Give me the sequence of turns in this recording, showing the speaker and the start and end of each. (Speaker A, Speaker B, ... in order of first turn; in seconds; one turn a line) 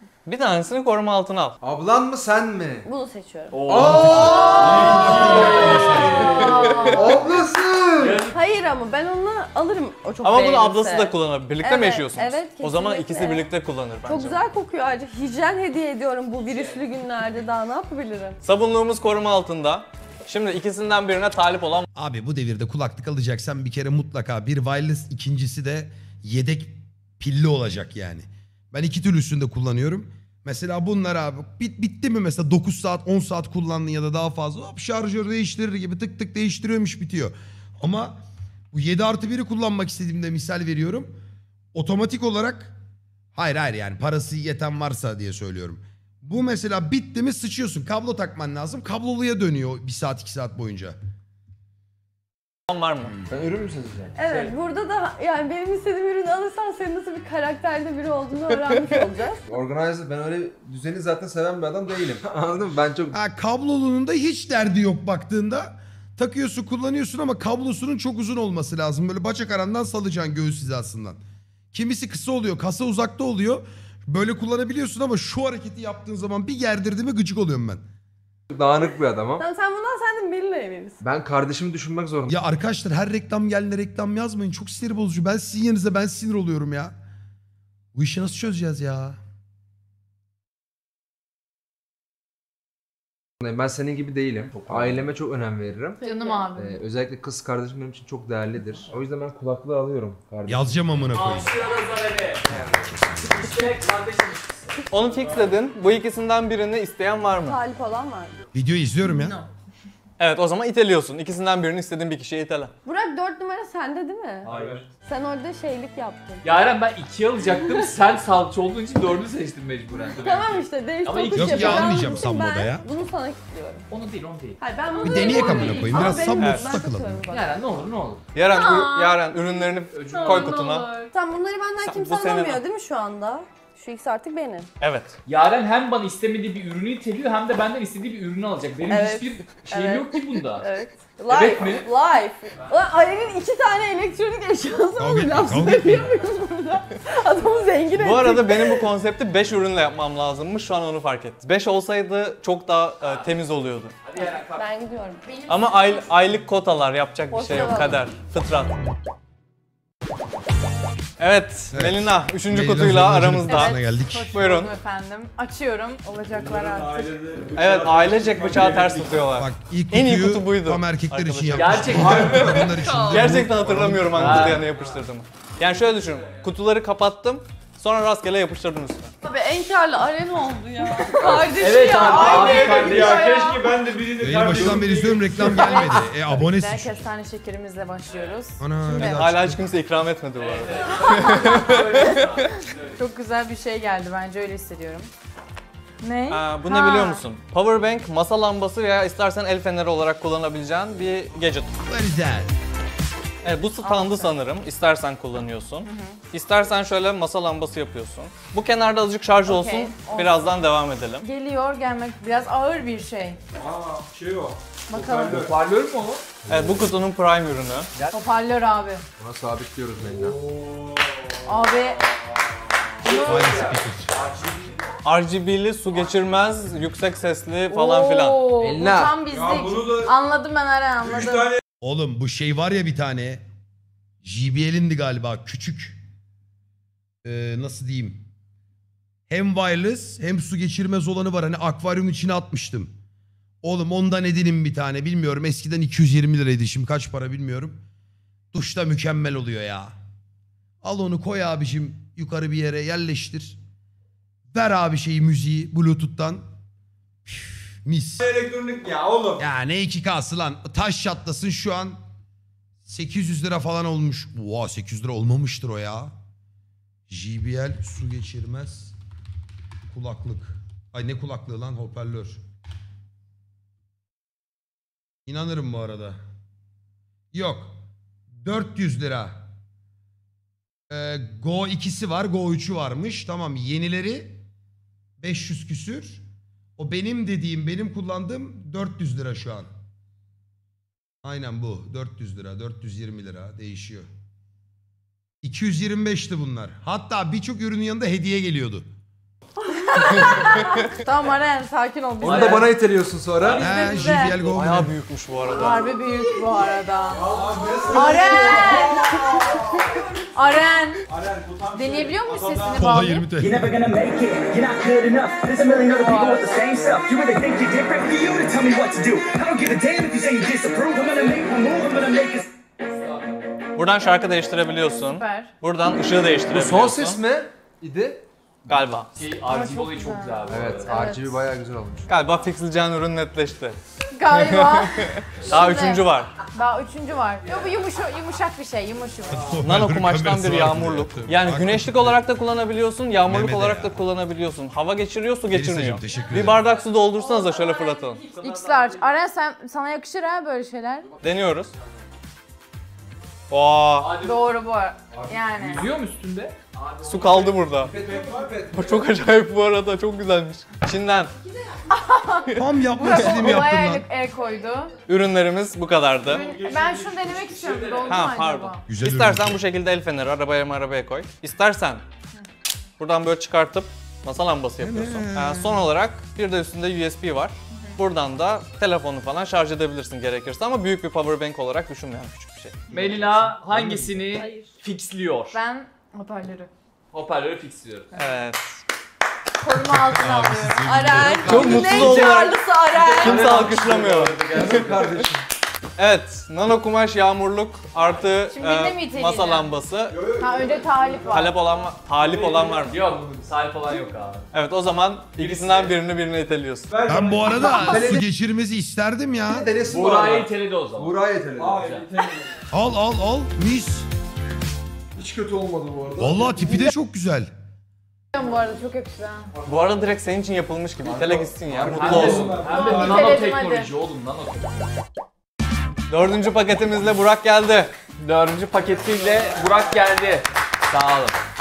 Speaker A: 0.3-1.6
Speaker B: 1.6-2.9
Speaker C: 2.9-7.1
Speaker D: 3.5-7.0
Speaker B: 3.7-4.8
Speaker E: 3.7-5.0
Speaker F: 4.6-6.0
Speaker E: 5.5-6.2
Speaker G: 6.4-7.1
Speaker B: 6.8-8.3
Speaker D: 8.0-8.3
Speaker C: 8.3-13.5
Speaker A: 10.2-14.4
Speaker C: 14.1-18.4
Speaker A: 18.4-21.9
Speaker E: 21.9-41.1
Speaker E: 41.7-42.7
Speaker E: 43.3-51.0
Speaker A: 52.7-53.1
Speaker B: 53.3-54.2
Speaker C: 54.2-59.4
Speaker B: 59.5-63.2
Speaker E: 63.1-71.2
Speaker E: 71.7-77.8
Speaker B: 78.5-79.5
Speaker C: 79.4-81.0
Speaker B: 81.0-82.3
Speaker E: 82.3-87.0
Speaker E: 88.0-89.2
Speaker B: 93.4-96.0
Speaker E: 94.7-95.0
Speaker C: 96.0-96.5
Speaker G: 96.0-96.8
Speaker B: 96.5-100.8
Speaker E: 100.5-101.5
Speaker D: 101.1-102.6
Speaker D: 103.2-104.6
Speaker A: 104.9-107.6
Speaker D: 105.2-105.5
Speaker C: 107.5-108.4
Speaker E: 108.5-109.4
Speaker A: 110.2-112.7
Speaker C: 112.8-114.5
Speaker D: 114.5-114.8
Speaker F: 114.5-114.8
Speaker C: 115.0-116.4
Speaker D: 116.4-122.3
Speaker C: 120.2-123.9
Speaker E: 121.3-122.8
Speaker D: 123.9-125.8
Speaker C: 124.6-127.5
Speaker E: 125.0-127.2
Speaker G: 125.3-125.9
Speaker A: 125.9-126.7
Speaker D: 127.3-128.2
Speaker A: 128.3-130.9
Speaker G: 128.6-129.2
Speaker D: 129.9-130.7
Speaker G: 130.4-131.1
Speaker C: 131.1-134.7
Speaker A: 131.8-132.6
Speaker A: 134.8-135.2
Speaker D: 135.3-140.7
Speaker C: 138.9-148.9
Speaker D: 141.3-141.9
Speaker E: 145.0-146.1
Speaker A: 147.9-153.9
Speaker D: 153.0-153.3
Speaker D: 154.1-154.7
Speaker C: 154.6-155.4
Speaker G: 155.3-156.1
Speaker A: 155.5-158.7
Speaker C: 157.3-158.1
Speaker A: 161.2-163.8
Speaker E: 161.7-164.3
Speaker G: 163.5-167.2
Speaker A: 164.3-164.7
Speaker F: 166.3-169.3
Speaker A: 167.6-179.1
Speaker E: 169.4-174.6
Speaker D: 171.6-172.7
Speaker F: 171.9-172.9
Speaker C: 172.9-173.2
Speaker D: 174.2-174.7
Speaker C: 179.2-183.2
Speaker B: 181.1-181.6
Speaker D: 181.6-183.6
Speaker F: 181.9-185.8
Speaker G: 182.5-183.7
Speaker E: 184.2-187.0
Speaker G: 185.5-188.6
Speaker E: 188.6-189.7
Speaker A: 188.9-192.3
Speaker D: 190.4-193.0
Speaker G: 191.1-192.3
Speaker G: 193.0-195.1
Speaker G: 196.0-197.2
Speaker A: 196.3-201.7
Speaker E: 201.9-202.5
Speaker A: 203.4-211.3
Speaker G: 203.8-204.4
Speaker G: 205.8-206.2
Speaker G: 209.4-210.6
Speaker G: 211.2-213.4
Speaker F: 213.6-215.5
Speaker G: 214.9-215.4
Speaker D: 215.2-216.2
Speaker A: 216.5-217.9
Speaker G: 218.1-219.0
Speaker B: 219.2-220.4
Speaker F: 220.1-221.5
Speaker G: 221.5-222.0
Speaker F: 223.0-224.6
Speaker G: 223.0-223.6
Speaker E: 223.2-224.1
Speaker A: 225.0-228.5
Speaker G: 227.7-231.6
Speaker B: 228.6-229.2
Speaker F: 229.2-230.1
Speaker F: 231.0-231.6
Speaker E: 231.8-233.4
Speaker E: 234.2-236.0
Speaker E: 237.2-238.2
Speaker E: 239.3-242.9
Speaker E: 243.6-247.8
Speaker E: 248.5-249.9
Speaker E: 250.8-253.6
Speaker E: 254.5-256.4
Speaker E: 257.3-258.3
Speaker F: 258.2-259.4
Speaker E: 259.4-262.0
Speaker E: 262.9-266.1
Speaker E: 267.1-268.9
Speaker E: 269.9-272.4
Speaker E: 275.3-276.2
Speaker E: 277.3-277.7
Speaker E: 278.4-279.4
Speaker E: 280.9-284.4
Speaker E: 285.2-286.2
Speaker E: 286.8-289.7
Speaker E: 291.2-294.1
Speaker E: 295.4-298.9
Speaker G: 299.8-302.8
Speaker B: 302.2-303.7
Speaker D: 302.2-302.7
Speaker E: 303.6-304.9
Speaker G: 303.6-304.4
Speaker A: 304.4-305.9
Speaker G: 305.5-307.3
Speaker F: 307.1-309.1
Speaker G: 307.9-309.1
Speaker G: 310.3-311.0
Speaker F: 311.1-313.0
Speaker G: 311.7-313.4
Speaker E: 312.8-313.7
Speaker H: 313.3-322.5
Speaker G: 315.9-316.6
Speaker D: 322.9-323.2
Speaker A: 323.8-327.2
Speaker G: 325.1-325.5
Speaker B: 326.5-328.3
Speaker A: 328.7-329.1
Speaker D: 329.1-331.0
Speaker G: 329.5-331.4
Speaker B: 330.5-332.1
Speaker A: 332.1-336.4
Speaker G: 334.1-339.5
Speaker E: 339.3-342.2
Speaker A: 339.6-348.2
Speaker E: 343.2-344.0
Speaker E: 345.5-346.6
Speaker G: 348.3-351.1
Speaker D: 348.3-349.0
Speaker A: 351.2-351.7
Speaker A: 353.5-354.1
Speaker D: 354.0-354.4
Speaker G: 354.2-355.9
Speaker B: 355.1-355.8
Speaker D: 355.7-357.5
Speaker A: 357.0-357.9
Speaker B: 357.8-359.0
Speaker F: 357.9-358.6
Speaker A: 358.7-361.3
Speaker G: 361.9-365.0
Speaker E: 362.6-364.1
Speaker A: 365.1-366.5
Speaker F: 366.3-368.2
Speaker G: 366.3-368.8
Speaker A: 368.1-372.0
Speaker E: 368.9-369.6
Speaker A: 373.0-382.9
Speaker E: 374.8-375.9
Speaker D: 382.9-385.6
Speaker G: 385.5-386.7
Speaker D: 387.1-388.1
Speaker A: 388.1-388.8
Speaker G: 389.6-391.2
Speaker E: 389.7-392.3
Speaker C: 390.9-393.7
Speaker A: 391.4-394.8
Speaker D: 392.9-395.1
Speaker B: 393.4-395.4
Speaker A: 396.0-400.2
Speaker G: 398.5-399.7
Speaker F: 400.1-401.4
Speaker G: 400.4-401.5
Speaker A: 401.3-403.0
Speaker F: 402.1-403.5
Speaker D: 402.8-404.5
Speaker A: 404.5-406.9
Speaker F: 405.4-405.9
Speaker F: 406.9-408.2
Speaker E: 407.1-409.7
Speaker B: 407.5-408.2
Speaker B: 409.5-411.9
Speaker D: 409.8-411.2
Speaker F: 411.6-412.6
Speaker D: 411.7-412.1
Speaker E: 412.7-414.1
Speaker B: 415.2-416.9
Speaker E: 416.2-417.5
Speaker G: 418.3-419.5
Speaker A: 419.6-422.7
Speaker B: 421.0-422.5
Speaker F: 421.8-423.4
Speaker D: 421.8-424.6
Speaker G: 422.6-423.9
Speaker A: 426.1-427.9
Speaker D: 428.2-431.4